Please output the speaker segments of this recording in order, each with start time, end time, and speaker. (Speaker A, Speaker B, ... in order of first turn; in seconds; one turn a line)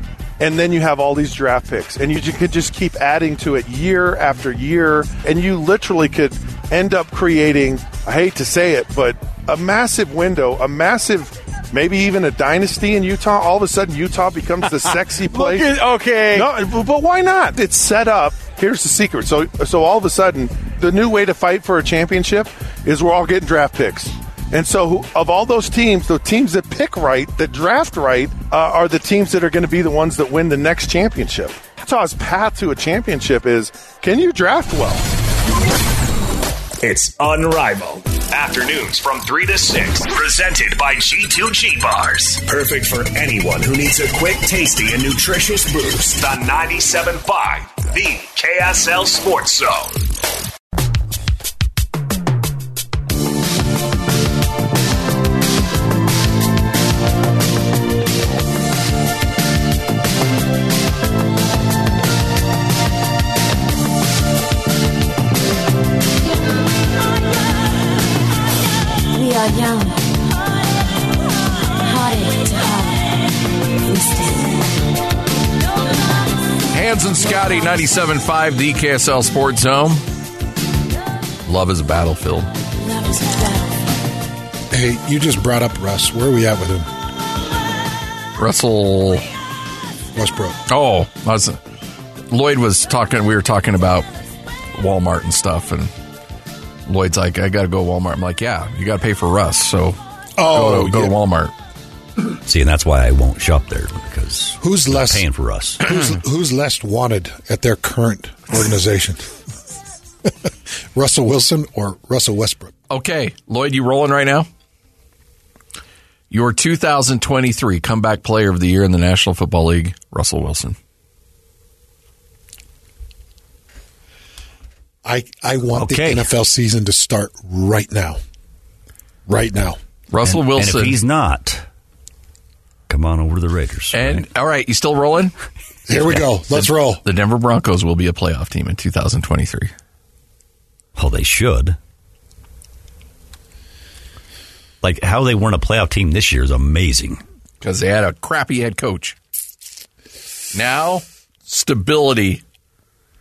Speaker A: 0.4-35.1
Speaker B: 36.8-50.0
Speaker C: 69.1-70.2
Speaker C: 71.8-73.3
Speaker C: 73.8-74.8
Speaker D: 76.7-80.0
Speaker D: 81.5-82.5
Speaker C: 82.7-83.9
Speaker E: 84.7-86.9
Speaker D: 88.4-89.2
Speaker E: 90.1-90.6
Speaker D: 90.7-91.6
Speaker D: 92.3-94.0
Speaker D: 94.8-95.9
Speaker D: 96.9-101.5
Speaker E: 100.4-101.1
Speaker F: 102.4-105.9
Speaker E: 104.6-105.2
Speaker E: 105.8-109.3
Speaker E: 110.9-112.7
Speaker D: 112.9-114.5
Speaker D: 116.3-120.8
Speaker E: 125.0-128.2
Speaker F: 125.7-126.3
Speaker E: 129.3-129.8
Speaker D: 130.1-131.0
Speaker F: 130.2-131.6
Speaker F: 132.9-134.2
Speaker D: 133.9-135.3
Speaker E: 135.9-137.0
Speaker D: 136.5-139.7
Speaker F: 140.9-141.8
Speaker F: 144.8-147.2
Speaker D: 147.6-149.2
Speaker D: 150.5-152.4